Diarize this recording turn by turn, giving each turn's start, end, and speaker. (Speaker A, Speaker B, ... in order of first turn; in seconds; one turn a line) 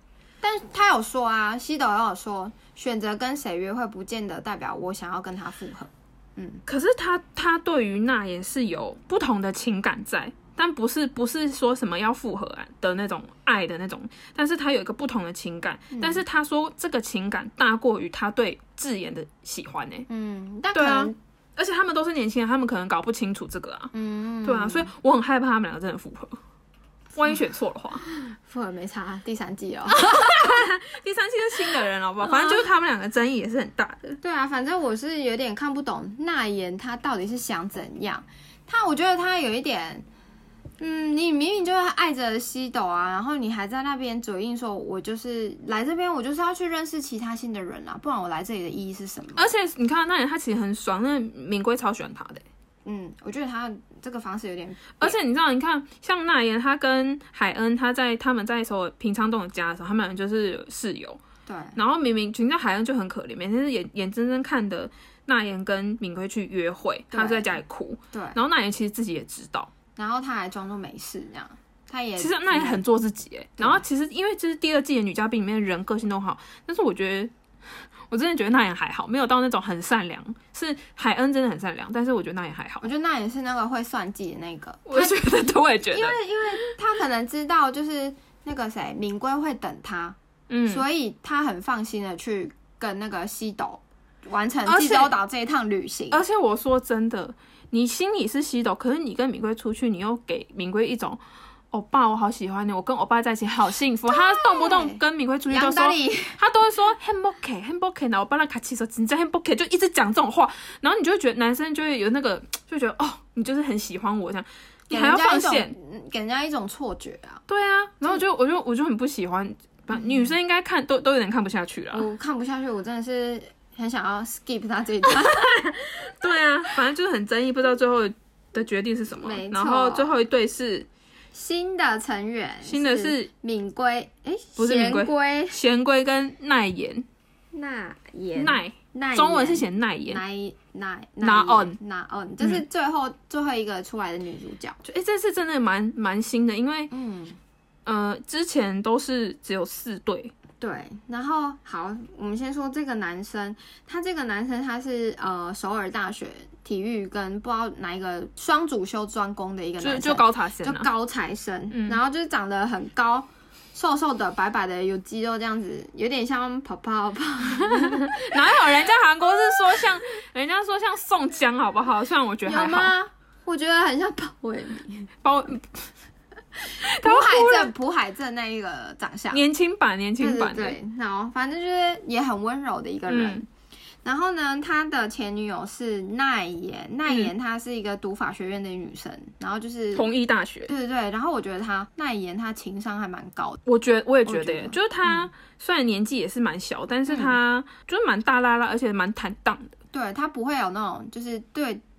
Speaker A: 0.4-6.6
Speaker B: 6.7-20.1
Speaker A: 15.9-16.2
Speaker A: 20.1-21.1
Speaker B: 20.7-23.9
Speaker A: 23.9-24.9
Speaker B: 24.4-26.4
Speaker B: 27.1-28.0
Speaker A: 28.1-30.7
Speaker B: 29.9-34.2
Speaker A: 32.2-32.6
Speaker A: 34.2-40.0
Speaker A: 40.8-49.5
Speaker B: 49.4-52.4
Speaker A: 52.9-55.1
Speaker B: 55.0-61.2
Speaker A: 61.5-61.8
Speaker B: 61.8-69.7
Speaker A: 67.1-67.6
Speaker A: 68.1-68.4
Speaker A: 70.0-72.8
Speaker B: 72.2-77.3
Speaker A: 73.6-73.8
Speaker B: 78.1-82.9
Speaker A: 82.8-85.2
Speaker B: 84.8-86.7
Speaker A: 85.9-90.2
Speaker B: 90.5-90.8
Speaker A: 90.7-96.2
Speaker B: 94.7-95.1
Speaker B: 96.1-101.2
Speaker B: 101.7-115.7
Speaker A: 104.1-106.4
Speaker A: 114.9-117.4
Speaker B: 117.5-122.1
Speaker A: 119.9-120.3
Speaker A: 121.9-125.6
Speaker B: 125.0-130.9
Speaker A: 129.2-130.2
Speaker A: 131.3-135.6
Speaker B: 132.6-133.3
Speaker B: 134.6-137.1
Speaker A: 137.5-144.8
Speaker B: 138.3-140.2
Speaker B: 141.2-141.8
Speaker B: 144.8-146.9
Speaker A: 146.9-147.4
Speaker B: 147.8-150.3
Speaker A: 150.6-168.8
Speaker B: 159.8-160.9
Speaker B: 161.7-162.0
Speaker B: 167.5-172.9
Speaker A: 172.4-175.1
Speaker B: 175.2-175.9
Speaker A: 176.7-179.4
Speaker B: 176.8-177.7
Speaker B: 179.3-180.8
Speaker A: 180.2-183.4
Speaker B: 183.1-183.4
Speaker A: 184.0-190.1
Speaker B: 189.9-190.7
Speaker A: 190.7-193.6
Speaker B: 193.7-199.7
Speaker A: 194.2-195.3
Speaker A: 197.1-197.4
Speaker A: 199.9-201.8